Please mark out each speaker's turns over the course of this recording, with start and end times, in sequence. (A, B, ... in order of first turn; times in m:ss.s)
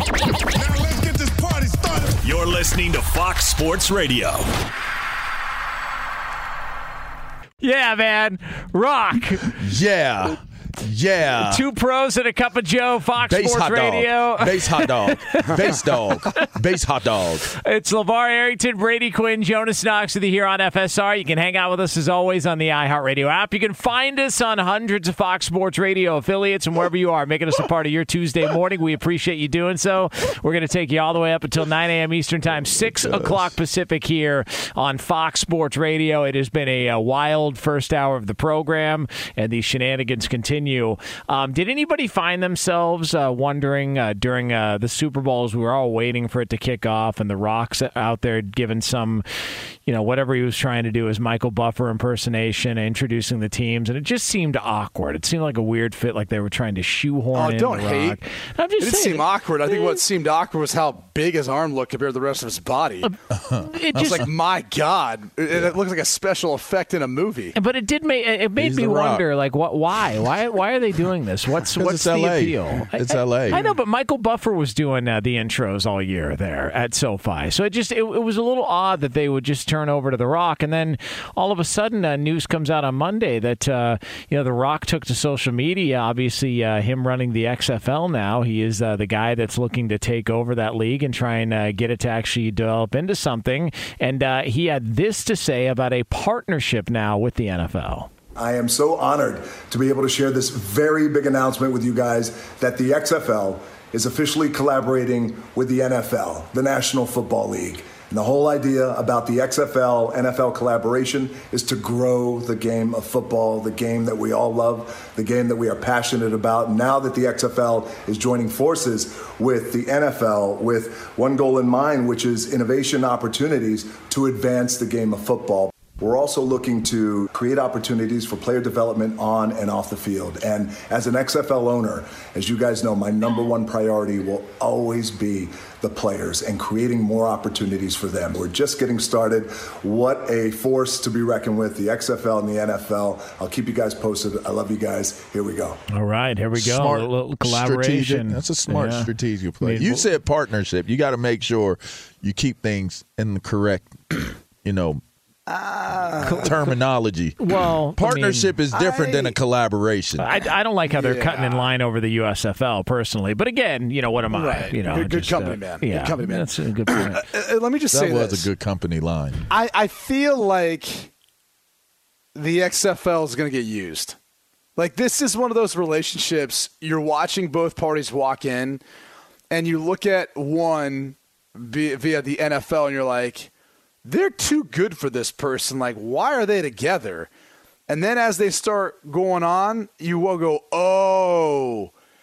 0:00.6-0:04.5 A
0:07.6-0:09.6 B
0:09.6-0:11.6 C
0:11.4-0:16.5 B
0:13.3-0:17.5 C
0:17.4-0:49.2 B
0:32.9-0:33.5 C
0:49.8-1:00.0 B
0:57.3-0:58.2 D
0:58.8-1:03.1 D
1:03.0-1:04.2 B
1:03.3-1:03.7 C
1:03.9-1:07.6 D
1:07.5-1:38.1 B
1:08.6-1:09.2 C
1:11.8-1:13.6 C
1:38.4-2:25.8 E
2:25.9-2:29.1 B
2:26.6-2:35.0 C
2:29.6-2:30.0 B
2:35.5-2:36.6 D
2:36.2-2:37.4 C
2:37.4-2:38.5 B
2:38.0-2:40.2 C
2:38.7-2:39.3 D
2:40.2-2:47.3 B
2:40.9-2:41.6 D
2:44.3-2:48.5 D
2:47.9-2:49.5 C
2:49.5-2:51.1 D
2:52.3-2:54.2 D
2:54.8-2:58.8 D
2:59.5-3:03.5 D
3:04.0-3:07.3 D
3:07.9-3:11.9 D